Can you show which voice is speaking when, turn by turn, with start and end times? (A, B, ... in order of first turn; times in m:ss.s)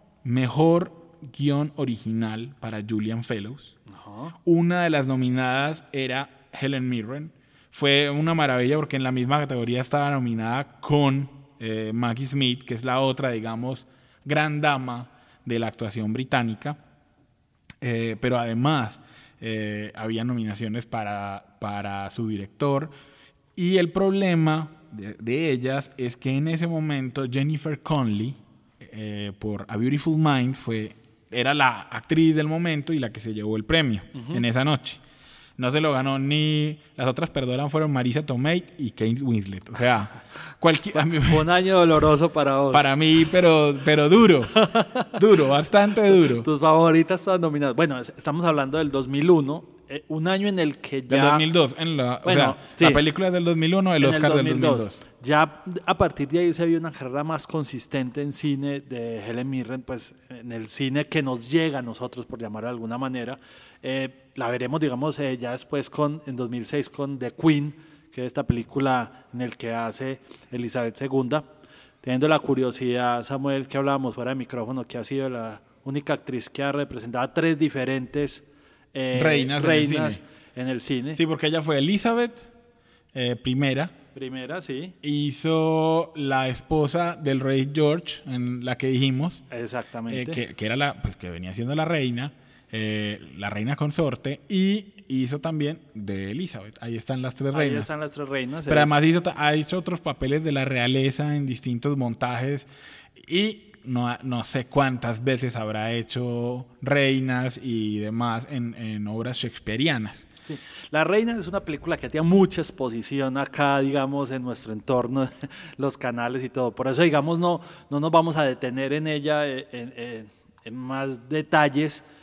0:00.2-0:03.8 A
0:03.9-0:04.3 B
0:04.4-0:16.8 A
0:17.8-0:22.9 A
0:23.6-0:35.0 A
0:34.2-0:34.4 B
0:35.6-0:41.5 A
0:41.1-0:42.9 B
0:42.7-0:46.5 A
0:44.6-0:45.1 B
0:46.2-0:51.5 B
0:51.1-0:55.0 A
0:52.2-0:53.0 B
0:54.0-1:11.5 B
1:12.0-1:21.2 B
1:19.1-1:20.2 A
1:21.2-1:22.5 A
1:23.1-1:23.9 A
1:24.1-1:24.9 B
1:25.0-1:29.4 A
1:29.5-1:30.4 B
1:30.1-1:37.9 A
1:37.5-1:39.0 B
1:38.7-1:42.7 A
1:43.2-1:50.2 A
1:50.5-2:02.0 B